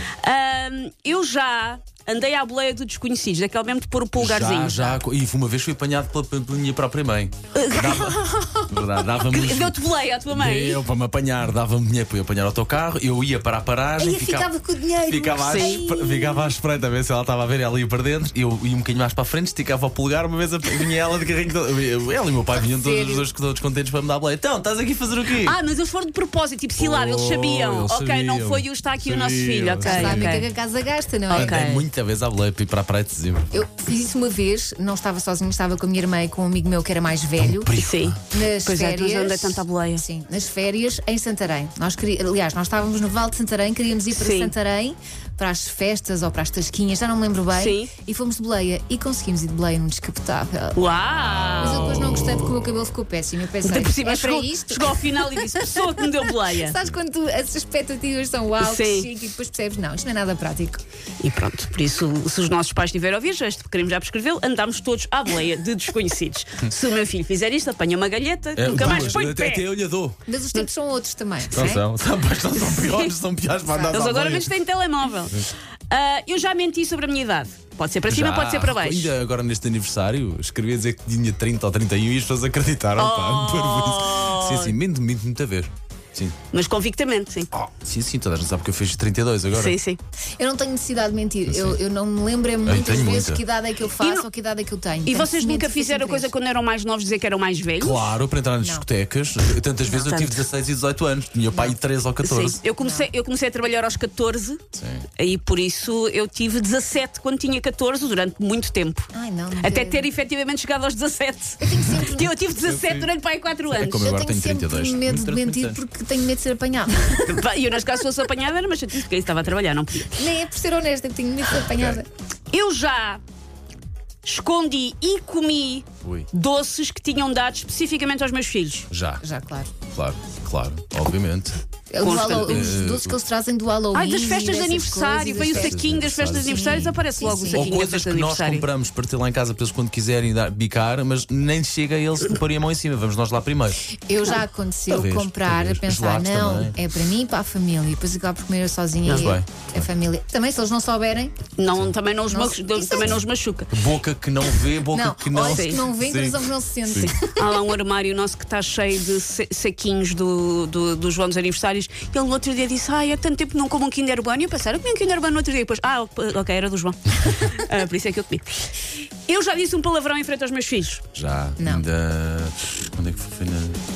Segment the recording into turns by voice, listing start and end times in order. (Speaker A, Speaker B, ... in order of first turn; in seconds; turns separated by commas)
Speaker A: 0.2-5.0, Speaker B: 4.2-9.8, Speaker A: 7.5-8.4, Speaker A: 9.2-10.8, Speaker B: 10.3-14.5, Speaker C: 14.0-16.5, Speaker B: 15.0-25.6, Speaker A: 15.4-15.8, Speaker C: 22.5-23.2, Speaker A: 25.4-30.5, Speaker B: 26.8-30.4, Speaker C: 29.8-31.6, Speaker A: 31.3-31.9, Speaker B: 31.3-33.6, Speaker C: 33.5-37.7, Speaker B: 37.4-38.2, Speaker A: 37.8-40.0, Speaker C: 38.3-50.8, Speaker A: 44.1-44.5, Speaker A: 47.5-47.9, Speaker A: 50.7-52.0, Speaker B: 51.1-52.4, Speaker C: 51.6-60.8, Speaker A: 53.6-56.8, Speaker A: 58.6-59.1, Speaker A: 61.2-69.7, Speaker B: 68.5-70.2, Speaker C: 68.7-69.2, Speaker C: 70.3-71.8, Speaker B: 71.5-74.5, Speaker A: 72.6-73.1, Speaker C: 73.6-74.0, Speaker A: 73.9-79.1, Speaker B: 78.1-86.3, Speaker A: 83.0-84.7, Speaker A: 86.5-87.5, Speaker B: 87.5-89.8, Speaker A: 89.5-90.0, Speaker C: 90.4-96.3, Speaker B: 91.5-91.8, Speaker B: 92.6-93.4, Speaker A: 94.0-94.2, Speaker A: 95.0-98.1, Speaker B: 97.8-102.6, Speaker C: 98.6-98.8, Speaker A: 99.9-100.4, Speaker C: 101.5-101.8, Speaker A: 102.2-104.6, Speaker C: 102.8-103.1, Speaker B: 104.7-105.0, Speaker A: 105.2-114.0, Speaker C: 109.1-110.1, Speaker C: 111.6-112.3, Speaker B: 112.4-113.1, Speaker B: 113.7-115.8, Speaker C: 114.0-117.3, Speaker A: 117.1-120.2, Speaker C: 120.1-122.1, Speaker B: 121.7-122.0, Speaker A: 122.5-123.2, Speaker A: 124.2-128.8, Speaker B: 126.0-126.3, Speaker B: 128.9-129.2, Speaker C: 129.2-129.7, Speaker B: 129.9-133.2, Speaker C: 131.9-135.7, Speaker A: 132.0-132.7, Speaker A: 133.9-138.7, Speaker B: 135.3-143.9, Speaker C: 136.4-137.7, Speaker C: 143.9-151.3, Speaker B: 144.9-146.8, Speaker A: 149.0-149.3, Speaker B: 149.1-149.8, Speaker A: 151.6-153.7, Speaker C: 152.3-153.2, Speaker B: 153.7-157.2, Speaker C: 154.8-157.6, Speaker A: 155.4-155.8, Speaker A: 157.0-168.6, Speaker A: 169.2-171.0, Speaker B: 171.1-173.8, Speaker C: 171.6-171.8